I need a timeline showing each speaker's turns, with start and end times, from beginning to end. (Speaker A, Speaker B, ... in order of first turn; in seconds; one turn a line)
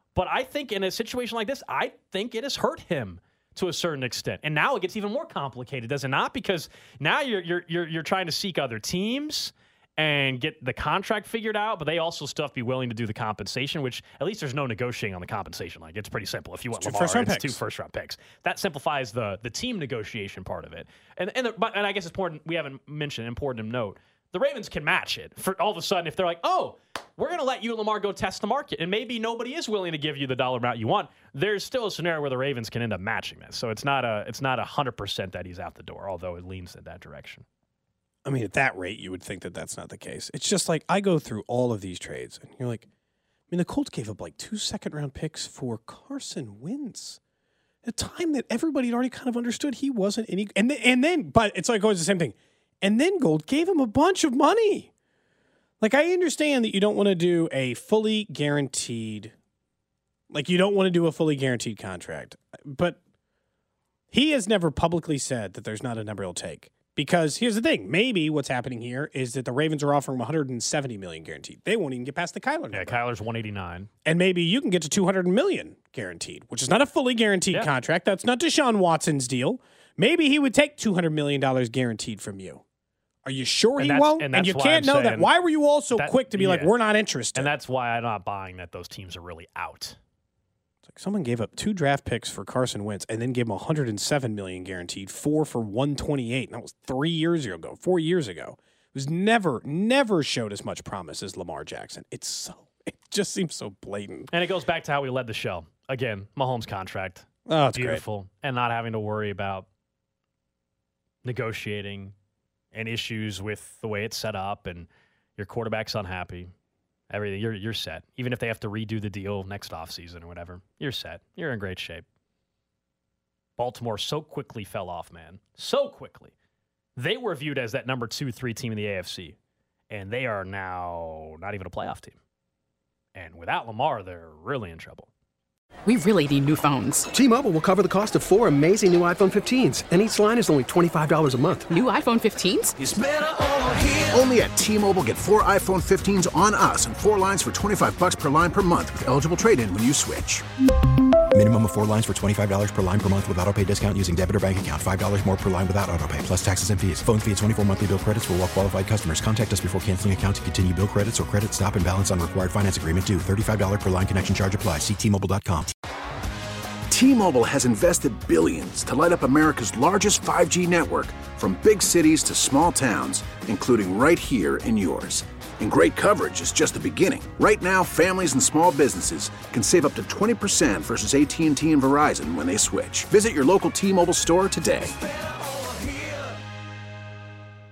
Speaker A: 0.1-37.5
Speaker B: 16.7-17.6
Speaker B: 38.2-42.9
Speaker B: 43.5-47.2
Speaker B: 47.9-54.9
Speaker B: 55.8-59.3
Speaker B: 60.3-63.0
Speaker B: 64.1-73.0
Speaker A: 72.7-73.9
Speaker B: 74.0-82.6
Speaker B: 83.2-87.5
Speaker A: 83.8-85.3
Speaker A: 85.9-86.7
Speaker A: 87.3-90.0
Speaker B: 90.9-104.3
Speaker A: 104.3-109.7
Speaker B: 107.5-108.0
Speaker A: 111.2-112.2
Speaker A: 112.7-116.5
Speaker A: 117.1-122.1
Speaker A: 123.6-126.3
Speaker A: 127.0-129.4
Speaker A: 129.9-132.2
Speaker A: 133.1-135.1
Speaker C: 135.9-137.1
Speaker D: 137.1-141.8
Speaker C: 141.7-142.8
Speaker E: 144.1-150.4
Speaker F: 151.3-165.7
Speaker E: 166.9-184.9